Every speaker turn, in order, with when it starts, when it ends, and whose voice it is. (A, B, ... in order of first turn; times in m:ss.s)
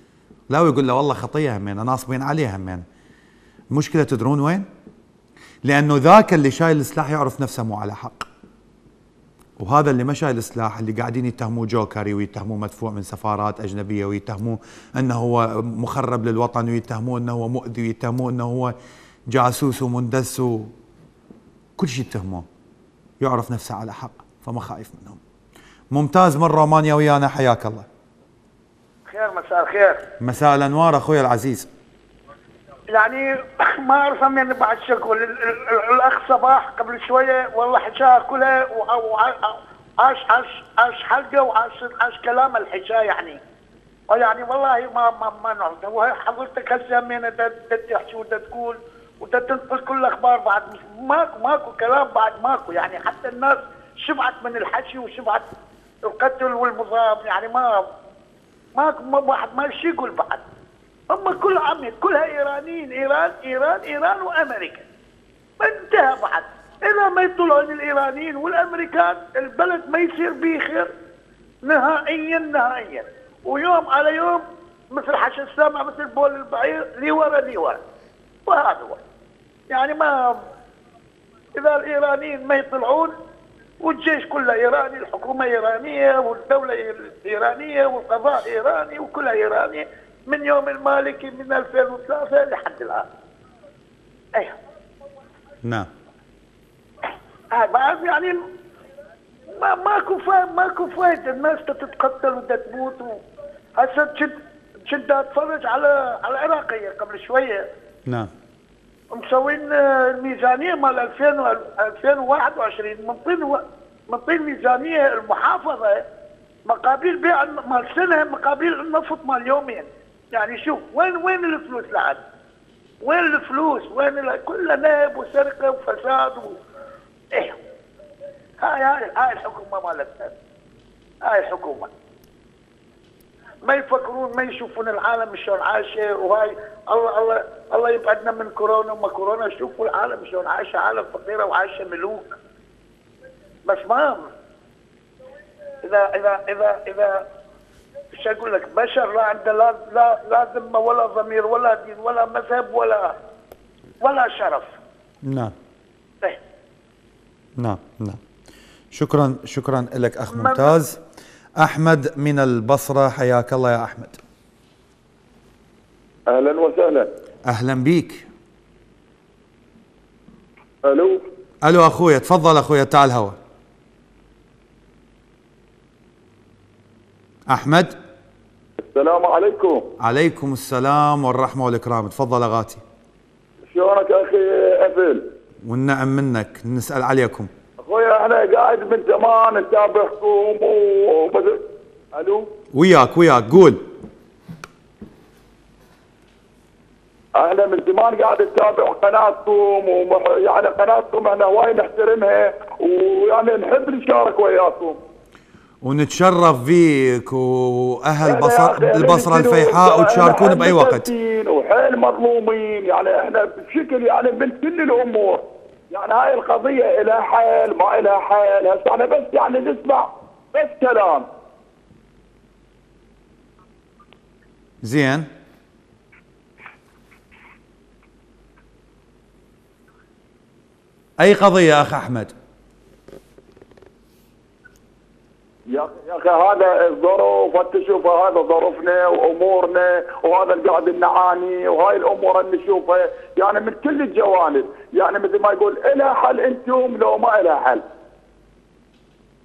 0:00.5-0:02.8 A
0:03.7-0:04.6 A
0:05.6-0:08.3 A
0:09.6-0:18.7 A
0:19.3-0:20.7 A
0:21.8-0:22.4 A
0:23.2-0:25.2 A
0:25.9-0:27.9 A
0:29.1-0:30.0 B
0:30.2-0:31.7 A
0:32.9-0:43.4 B
0:44.1-0:55.4 B
0:56.0-0:57.8 B
0:58.8-1:00.4 B
1:01.1-1:04.8 B
1:05.6-1:10.9 B
1:11.6-1:17.8 B
1:18.4-1:19.0 B
1:19.7-1:20.4 B
1:21.6-1:23.1 B
1:23.8-1:33.0 B
1:35.6-1:35.9 A
1:37.5-1:38.4 B
1:39.5-1:43.2 B
1:43.8-1:44.3 B
1:44.9-1:47.6 B
1:48.0-1:48.3 A
1:49.1-1:56.0 B
1:56.6-2:02.2 B
2:03.0-2:06.6 B
2:07.3-2:07.6 B
2:08.6-2:10.3 B
2:11.2-2:11.9 B
2:13.6-2:22.4 B
2:23.6-2:24.3 B
2:25.8-2:27.2 B
2:28.1-2:33.2 B
2:34.0-2:34.7 B
2:35.2-2:35.5 A
2:37.6-2:38.2 A
2:38.9-2:41.0 A
2:40.3-2:40.7 B
2:41.6-2:44.2 A
2:46.3-2:47.1 C
2:47.5-2:48.3 A
2:50.8-2:51.2 C
2:51.6-2:53.4 A
2:57.5-2:57.9 A
2:58.8-2:59.9 C
3:00.0-3:02.8 A
3:03.7-3:05.3 C
3:05.6-3:07.5 A
3:07.8-3:12.5 C
3:12.7-3:13.8 A
3:17.4-3:25.0 C
3:25.8-3:31.1 A
3:28.2-3:41.3 C
3:44.8-3:45.3 A
3:51.2-3:52.3 A
3:55.7-4:07.8 C